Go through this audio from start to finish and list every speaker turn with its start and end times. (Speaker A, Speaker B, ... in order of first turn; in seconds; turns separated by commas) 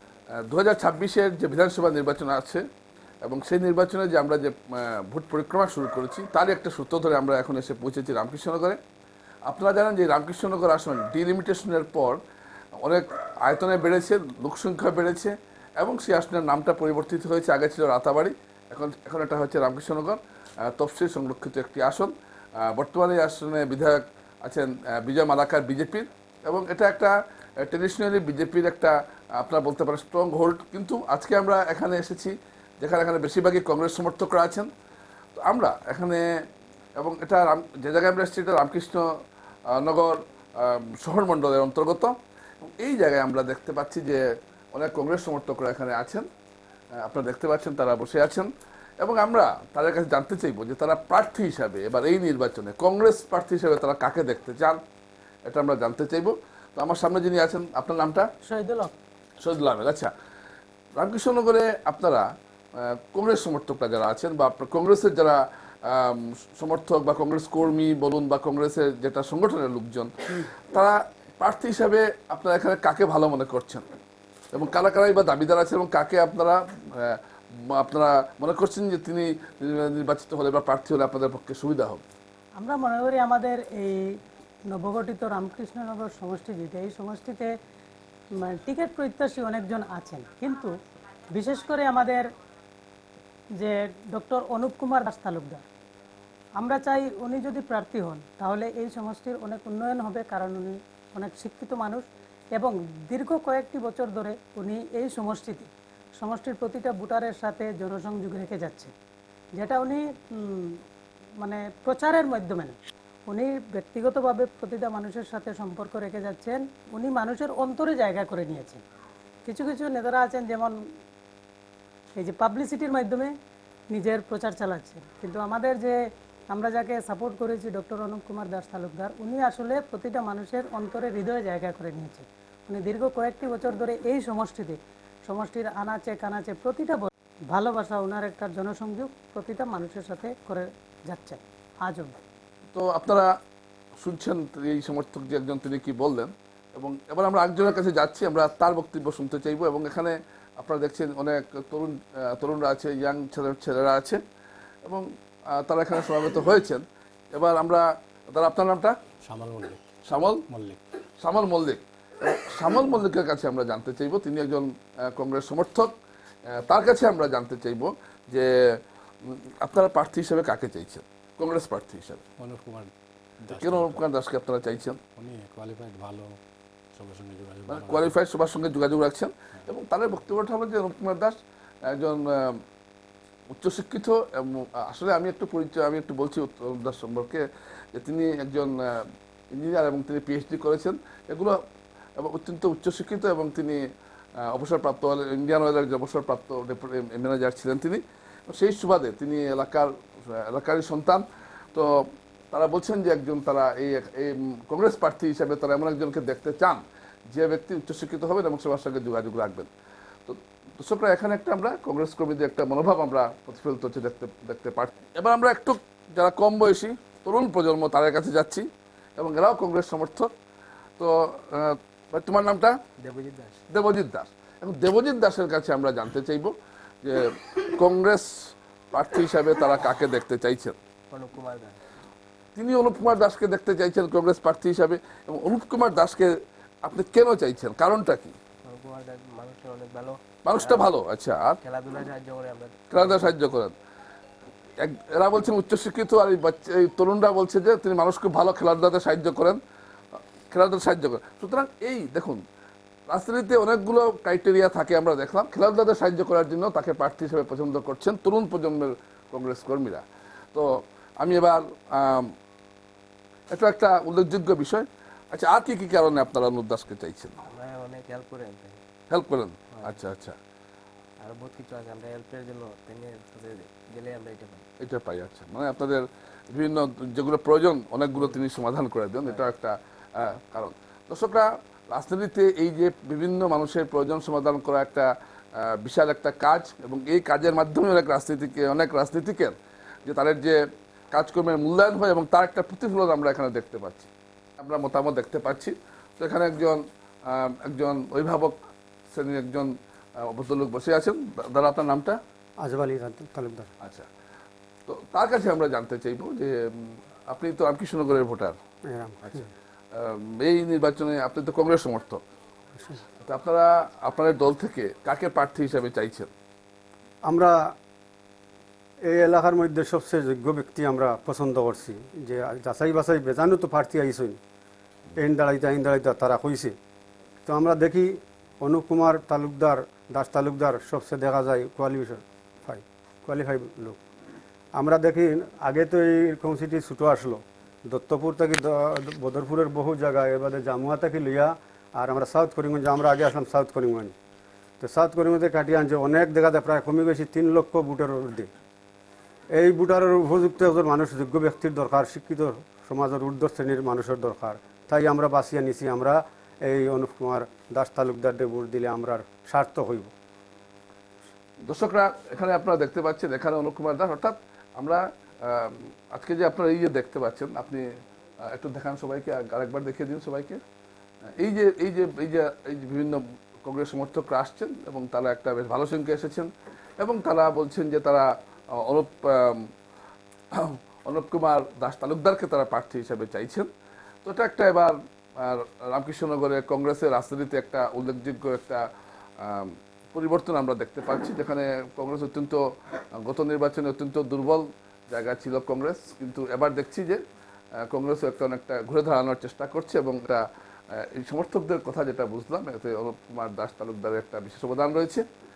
Speaker A: 0.3-2.6, Speaker A: 3.2-8.8, Speaker A: 9.5-12.2, Speaker A: 12.8-34.7, Speaker A: 35.4-36.2, Speaker A: 37.0-39.1, Speaker A: 39.7-42.1, Speaker A: 42.8-46.2, Speaker A: 47.0-54.8, Speaker A: 55.5-58.3, Speaker B: 58.4-58.9, Speaker A: 59.4-60.1, Speaker A: 61.0-62.2, Speaker A: 62.8-73.8, Speaker A: 74.5-82.0, Speaker B: 82.6-84.1, Speaker B: 84.7-87.5, Speaker B: 88.4-90.7, Speaker B: 91.3-92.2, Speaker B: 93.6-95.7, Speaker B: 96.6-105.7, Speaker B: 106.2-108.9, Speaker B: 109.5-110.8, Speaker B: 111.4-112.8, Speaker B: 113.3-118.8, Speaker B: 119.4-120.8, Speaker B: 122.2-123.3, Speaker B: 123.9-126.0, Speaker B: 126.5-142.2, Speaker A: 142.7-143.3, Speaker A: 144.0-154.2, Speaker A: 154.8-158.9, Speaker C: 159.2-159.8, Speaker A: 160.0-160.4, Speaker C: 160.5-160.8, Speaker A: 161.2-165.9, Speaker A: 166.5-172.2, Speaker C: 172.4-172.9, Speaker C: 173.4-174.0, Speaker A: 173.5-175.0, Speaker C: 175.2-176.3, Speaker C: 177.0-178.1, Speaker A: 177.7-181.4, Speaker A: 181.9-182.6, Speaker A: 183.6-191.6, Speaker A: 192.2-193.8, Speaker A: 194.4-209.7, Speaker A: 210.3-220.3, Speaker A: 221.0-222.8, Speaker D: 223.0-223.6, Speaker A: 223.7-226.5, Speaker A: 227.0-230.7, Speaker D: 231.1-231.8, Speaker A: 232.6-236.3, Speaker A: 236.8-238.3, Speaker D: 238.6-240.9, Speaker A: 240.4-241.6, Speaker D: 241.6-243.3, Speaker A: 242.9-243.7, Speaker A: 244.8-249.6, Speaker A: 250.5-252.4, Speaker A: 253.1-262.3, Speaker A: 263.5-267.4, Speaker D: 267.4-268.8, Speaker A: 269.1-270.4, Speaker D: 269.7-270.0, Speaker D: 271.2-274.6, Speaker A: 274.8-289.5, Speaker D: 278.1-278.4, Speaker A: 290.1-290.6, Speaker A: 291.1-298.6, Speaker A: 299.1-302.2, Speaker E: 302.6-303.7, Speaker A: 303.8-304.1, Speaker A: 304.9-308.6, Speaker E: 308.9-309.5, Speaker A: 309.2-312.2, Speaker A: 313.2-316.3, Speaker E: 317.2-317.7, Speaker E: 319.0-324.4, Speaker E: 325.1-326.7, Speaker E: 327.4-334.0, Speaker E: 334.8-344.1, Speaker E: 344.8-348.5, Speaker E: 349.5-360.1, Speaker A: 361.6-367.8, Speaker A: 368.4-370.6, Speaker A: 371.4-379.7, Speaker A: 380.5-383.7, Speaker A: 384.2-388.9, Speaker A: 389.4-392.6, Speaker A: 393.2-397.2, Speaker A: 397.8-405.2